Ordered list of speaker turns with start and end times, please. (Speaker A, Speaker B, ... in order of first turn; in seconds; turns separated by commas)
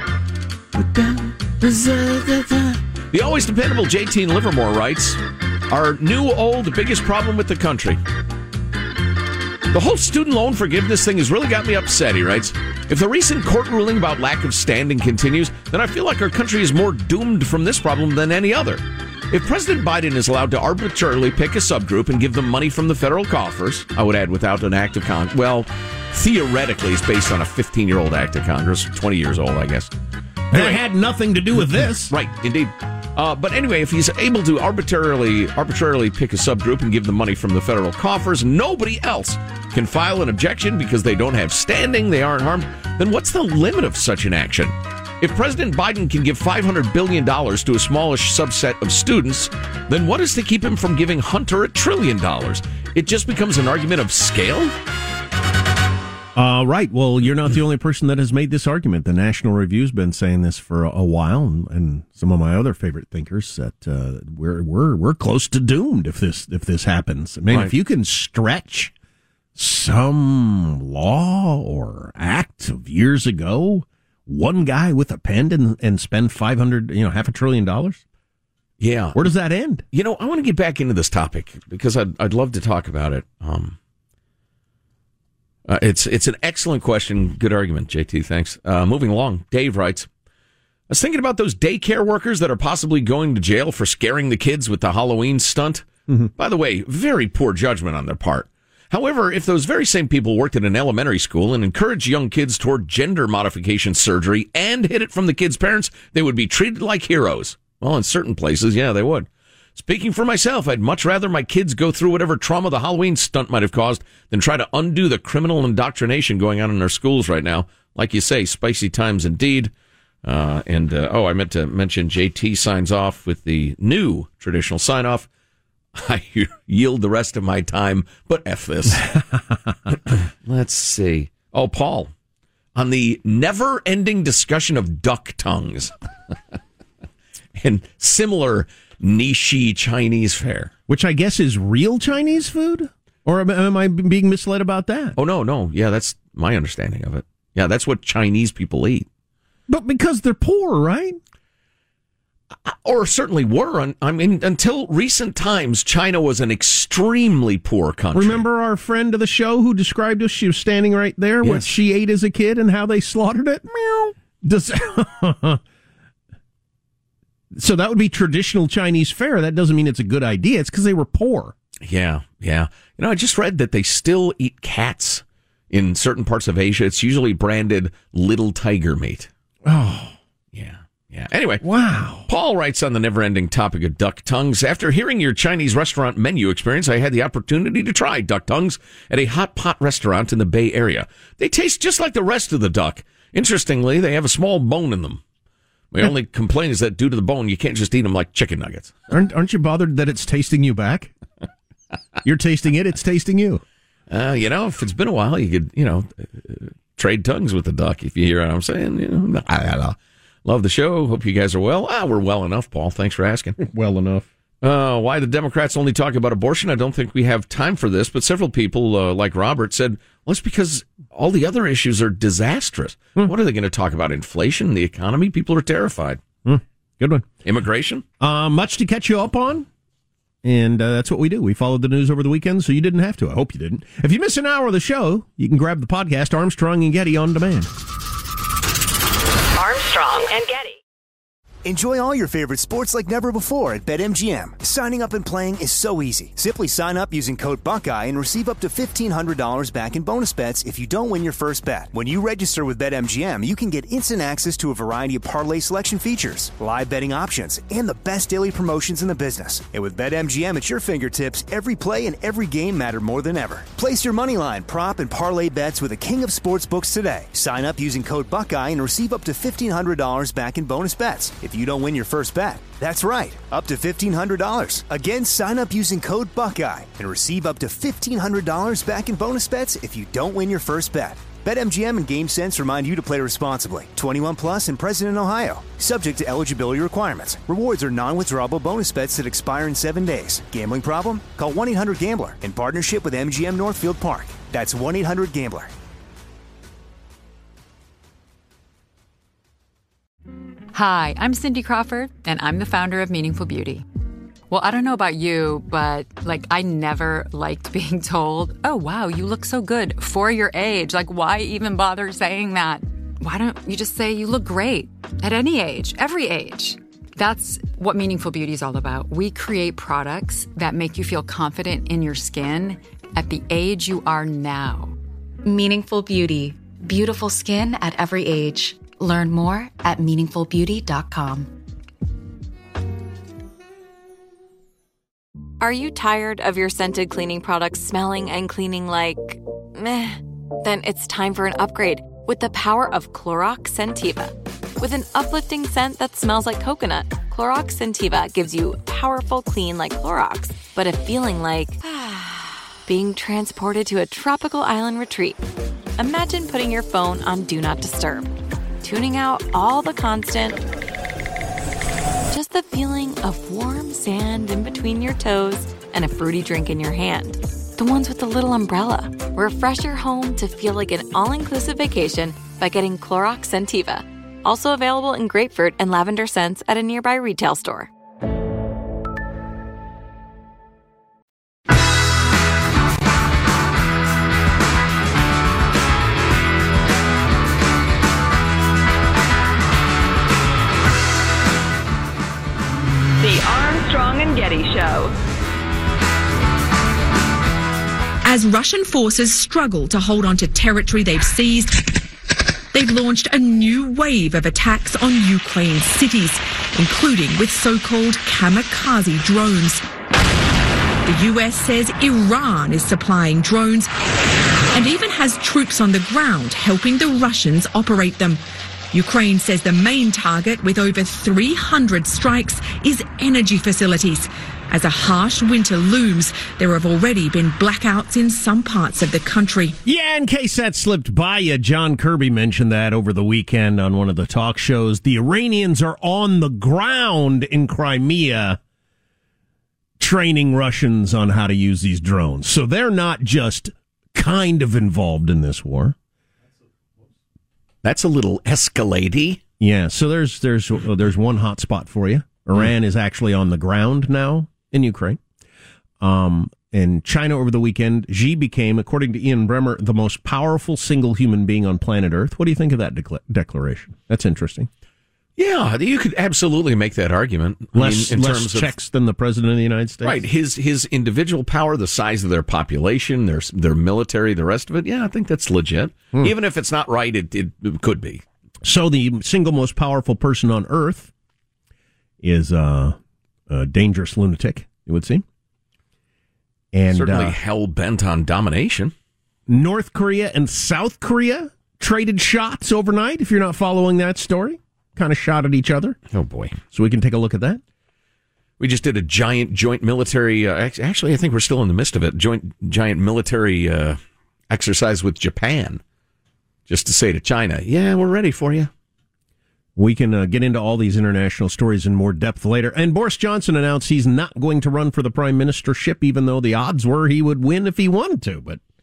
Speaker A: 0.8-8.0, Speaker A: 9.7-29.9, Speaker B: 30.5-32.1, Speaker A: 30.5-30.8, Speaker A: 31.9-54.7, Speaker B: 56.4-68.9, Speaker B: 69.5-78.0, Speaker A: 78.8-79.3, Speaker B: 79.2-79.8, Speaker A: 79.9-83.8, Speaker A: 85.7-90.1, Speaker A: 90.9-119.7, Speaker A: 120.2-125.3, Speaker A: 126.0-129.1, Speaker B: 129.2-129.6, Speaker A: 129.9-132.1, Speaker A: 132.8-135.9, Speaker A: 137.6-140.7, Speaker B: 140.9-145.2, Speaker A: 145.2-149.1, Speaker B: 149.7-151.2, Speaker A: 152.7-158.5, Speaker B: 158.1-165.6, Speaker A: 161.4-161.7, Speaker B: 167.5-171.6, Speaker A: 171.8-179.3, Speaker B: 179.6-180.2, Speaker A: 180.5-181.6, Speaker B: 181.6-182.3, Speaker A: 182.3-195.2, Speaker A: 195.9-198.9, Speaker B: 199.1-201.1, Speaker B: 202.2-203.6, Speaker A: 204.1-213.6, Speaker B: 213.6-214.3, Speaker A: 214.6-226.2, Speaker B: 226.4-227.3, Speaker A: 227.4-228.1, Speaker B: 228.2-229.7, Speaker B: 230.4-237.7, Speaker C: 239.6-240.8, Speaker D: 241.7-295.7, Speaker E: 300.7-303.9, Speaker E: 304.5-325.0, Speaker F: 325.4-331.5, Speaker G: 335.6-355.4, Speaker G: 356.0-360.6, Speaker G: 362.3-377.9, Speaker C: 393.2-395.1, Speaker H: 398.2-401.8, Speaker H: 402.7-409.8, Speaker H: 411.1-413.9, Speaker H: 414.7-429.8, Speaker B: 429.9-438.6, Speaker B: 440.0-446.0, Speaker A: 447.8-449.4, Speaker B: 449.6-455.2, Speaker B: 456.0-464.7, Speaker A: 465.4-468.8, Speaker B: 467.7-470.2, Speaker A: 470.0-478.2, Speaker B: 478.6-481.1, Speaker B: 482.2-483.0, Speaker B: 483.5-485.2, Speaker B: 486.7-487.4, Speaker A: 486.9-488.9, Speaker B: 489.5-496.0, Speaker A: 496.1-496.6, Speaker B: 496.7-497.6, Speaker A: 498.6-504.0, Speaker A: 504.5-505.8, Speaker A: 506.7-508.7, Speaker B: 509.8-518.6